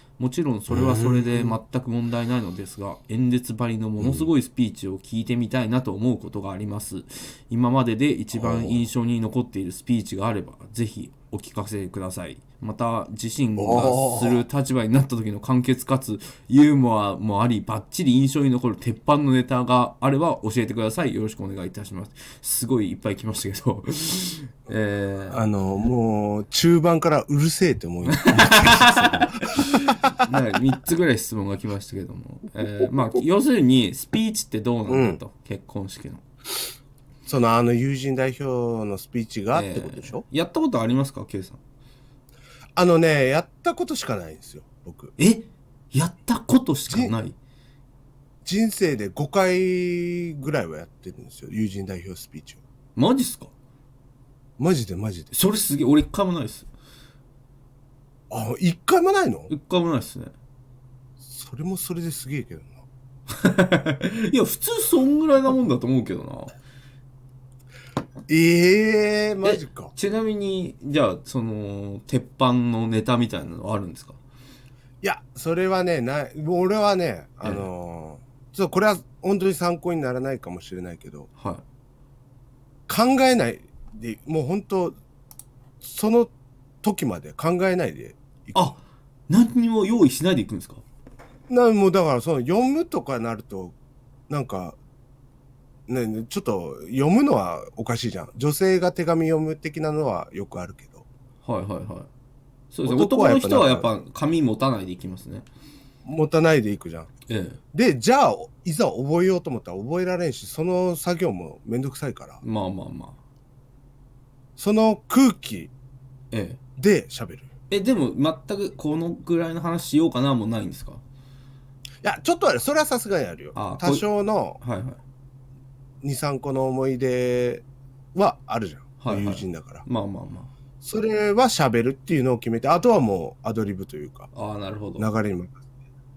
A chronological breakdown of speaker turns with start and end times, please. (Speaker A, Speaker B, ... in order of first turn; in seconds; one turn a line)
Speaker A: 0.2-25.4
Speaker B: 0.7-1.6
Speaker B: 4.0-4.3
Speaker B: 8.3-8.8
Speaker B: 13.6-14.4
Speaker B: 25.3-29.9
Speaker A: 28.1-36.2
Speaker B: 34.9-35.2
Speaker B: 37.2-40.2
Speaker A: 39.5-41.6
Speaker B: 42.8-45.1
Speaker A: 45.2-47.4
Speaker B: 46.9-47.1
Speaker B: 48.4-52.6
Speaker A: 53.0-53.5
Speaker B: 54.6-55.3
Speaker A: 55.3-56.7
Speaker B: 58.3-59.5
Speaker A: 59.5-60.3
Speaker B: 61.2-62.8
Speaker A: 63.3-66.5
Speaker B: 68.3-69.9
Speaker A: 69.4-74.2
Speaker B: 75.0-81.3
Speaker A: 81.4-81.6
Speaker B: 82.9-85.0
Speaker B: 85.8-86.3
Speaker B: 86.8-88.7
Speaker A: 88.5-90.8
Speaker B: 91.5-93.7
Speaker B: 94.3-94.8
Speaker B: 95.9-101.0
Speaker A: 101.4-102.1
Speaker A: 102.7-105.5
Speaker B: 102.8-103.9
Speaker B: 106.0-107.1
Speaker A: 107.3-107.6
Speaker B: 107.7-112.4
Speaker A: 112.4-113.2
Speaker B: 114.6-115.7
Speaker A: 116.3-116.6
Speaker B: 116.8-117.5
Speaker A: 117.7-121.0
Speaker B: 122.0-124.6
Speaker A: 123.5-124.0
Speaker A: 124.6-125.0
Speaker B: 126.0-127.6
Speaker B: 128.1-129.8
Speaker A: 129.0-130.5
Speaker B: 130.8-134.3
Speaker A: 134.3-135.1
Speaker B: 135.0-135.6